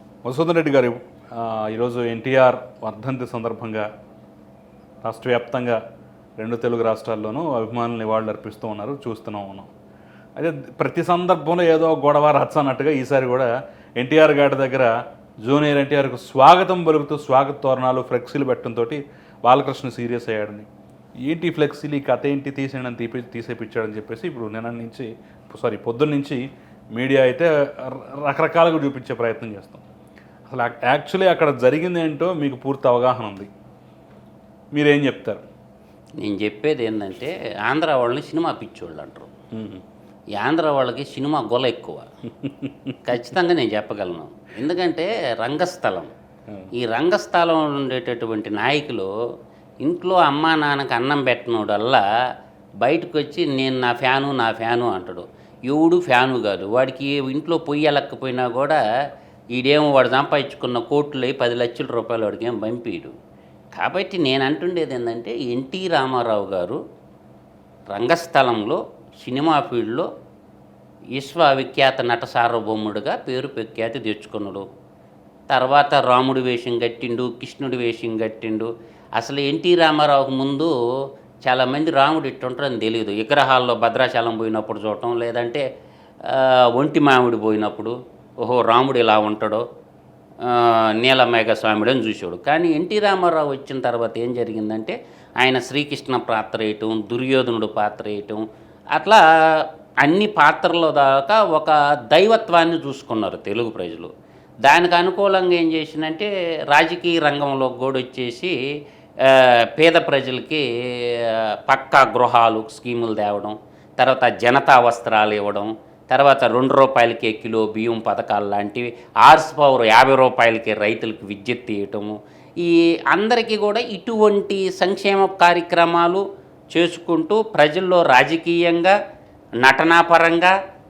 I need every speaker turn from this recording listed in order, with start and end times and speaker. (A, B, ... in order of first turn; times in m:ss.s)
0:00.2-0:03.9 A
0:05.0-0:05.8 A
0:06.4-0:09.7 A
0:10.4-0:14.9 A
0:15.4-0:20.7 A
0:21.2-0:26.4 A
0:26.9-0:29.9 A
0:30.5-0:33.5 A
0:34.7-0:35.4 A
0:36.2-0:39.3 B
0:39.5-0:39.8 A
0:40.4-0:42.0 B
0:42.4-0:43.0 A
0:43.0-0:46.1 B
0:46.8-0:49.1 B
0:49.8-0:52.0 B
0:52.8-0:58.8 B
0:59.5-1:03.1 B
1:03.8-1:06.8 B
1:07.9-1:10.1 B
1:11.2-1:14.6 B
1:15.5-1:20.7 B
1:21.4-1:25.6 B
1:26.2-1:29.6 B
1:30.4-1:44.1 B
1:44.6-1:48.5 B
1:49.2-2:09.0 B
2:09.6-2:10.5 B